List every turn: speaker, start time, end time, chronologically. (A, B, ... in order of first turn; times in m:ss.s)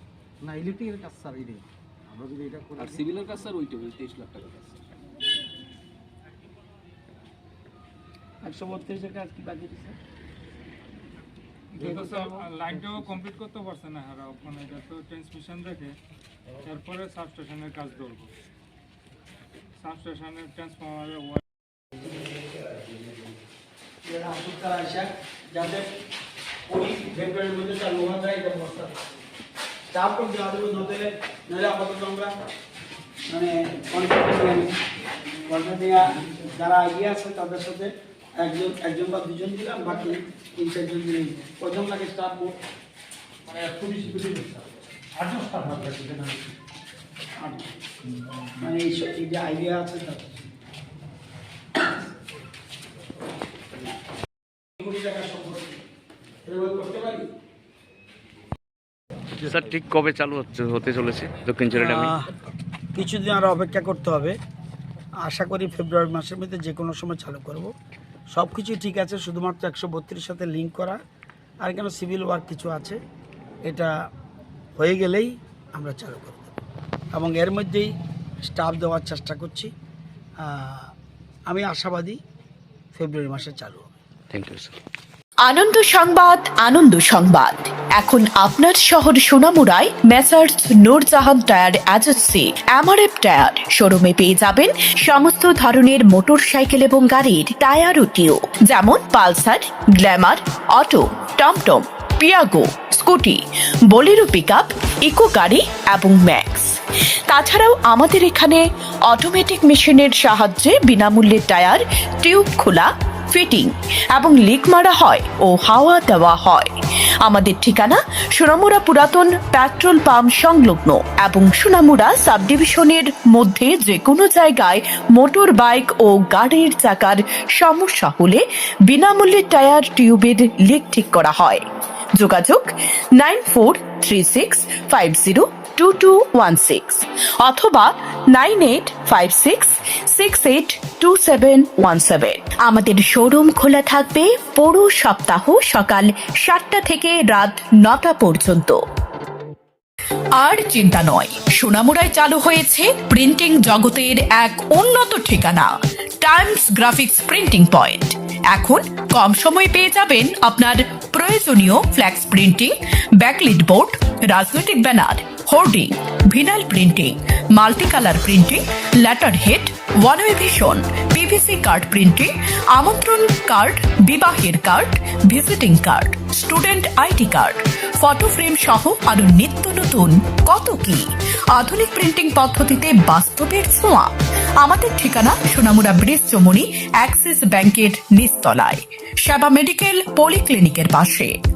0:00.4-0:03.3 A
0:02.8-0:04.8 B
0:08.4-0:10.0 C
0:11.8-0:16.0 D
0:11.8-0:12.5 C
0:11.8-0:12.0 A
0:12.7-0:13.2 A
0:16.6-0:18.3 D
0:19.8-0:21.4 D
0:24.0-0:25.8 C
0:26.7-0:28.9 C
0:29.9-0:32.3 C
0:33.3-0:34.7 C
0:35.5-0:42.6 C
0:43.5-0:46.5 A
0:47.4-0:47.7 C
0:48.6-0:50.4 C
0:54.8-0:55.8 C
0:56.4-0:57.3 C
0:59.4-1:02.1 E
1:01.7-1:02.3 C
1:02.9-1:04.4 C
1:05.2-1:07.7 C
1:08.3-1:11.0 C
1:11.6-1:13.0 C
1:14.8-1:16.5 C
1:17.1-1:17.9 C
1:18.4-1:19.7 C
1:20.4-1:20.9 C
1:21.5-1:22.2 C
1:22.9-1:23.8 C
1:24.3-1:24.8 E
1:25.5-1:56.7 F
1:57.2-2:11.6 F
2:12.2-2:28.8 F
2:30.3-3:11.4 F